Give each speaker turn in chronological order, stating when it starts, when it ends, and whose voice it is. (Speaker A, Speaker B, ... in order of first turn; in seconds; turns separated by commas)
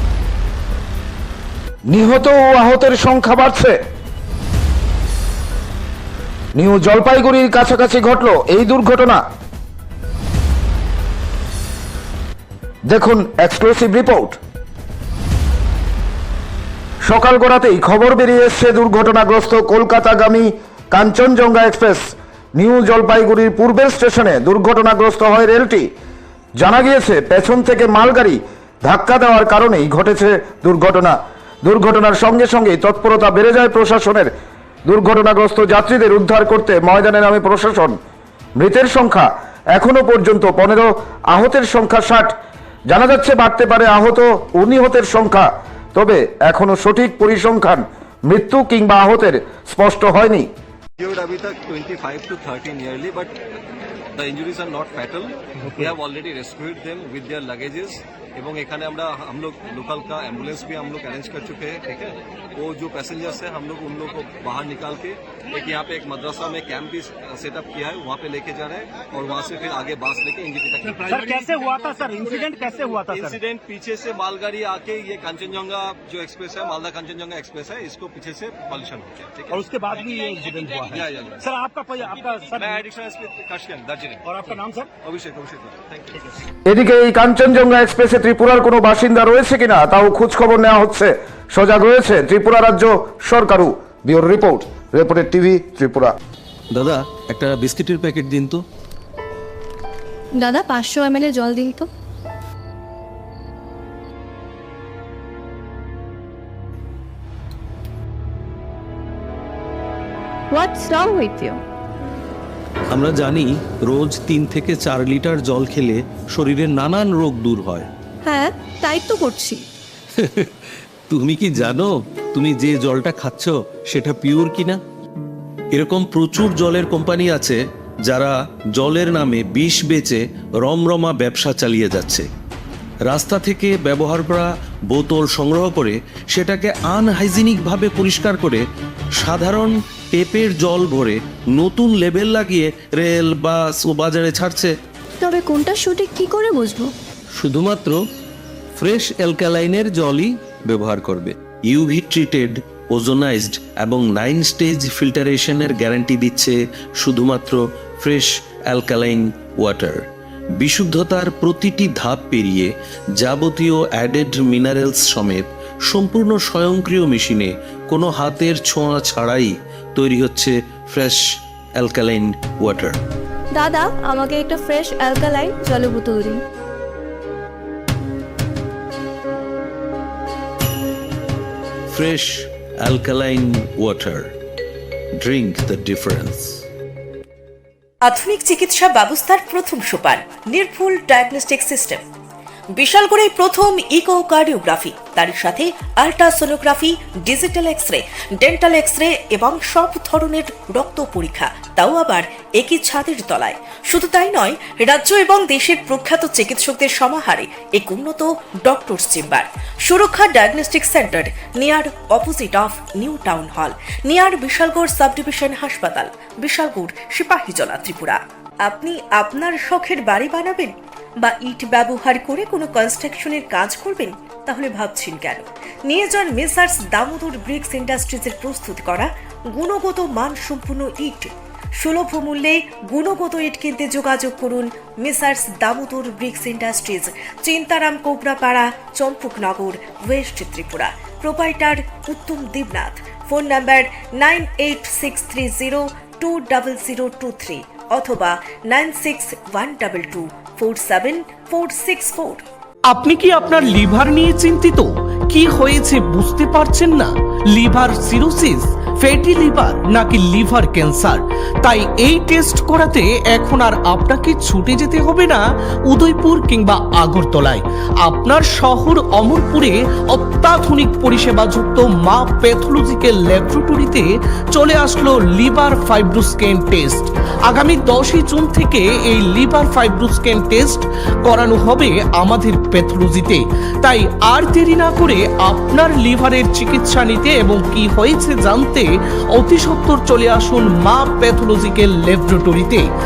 Speaker A: 1.9-3.8, Speaker A: 6.5-9.2, Speaker A: 12.9-14.4, Speaker A: 17.1-25.9, Speaker A: 26.6-34.3, Speaker A: 34.9-38.0, Speaker A: 38.6-42.3, Speaker A: 42.9-50.5, Speaker B: 51.0-53.4, Speaker B: 54.1-71.8, Speaker C: 70.8-73.4, Speaker B: 73.0-79.7, Speaker C: 79.5-82.8, Speaker B: 80.5-81.5, Speaker B: 82.4-86.3, Speaker C: 84.3-84.9, Speaker A: 86.7-96.1, Speaker D: 96.7-98.6, Speaker E: 100.4-101.9, Speaker E: 110.5-111.6, Speaker D: 112.9-117.9, Speaker E: 118.2-119.7, Speaker D: 120.2-120.5, Speaker D: 121.1-124.8, Speaker D: 125.7-132.3, Speaker D: 133.1-138.6, Speaker D: 139.2-144.7, Speaker E: 145.2-146.9, Speaker D: 147.4-148.0, Speaker D: 148.8-160.0, Speaker D: 160.6-171.2, Speaker D: 171.8-173.0, Speaker E: 173.6-176.4, Speaker D: 181.9-184.3, Speaker D: 185.2-186.6, Speaker F: 188.1-192.0, Speaker F: 192.8-252.5, Speaker G: 252.9-292.9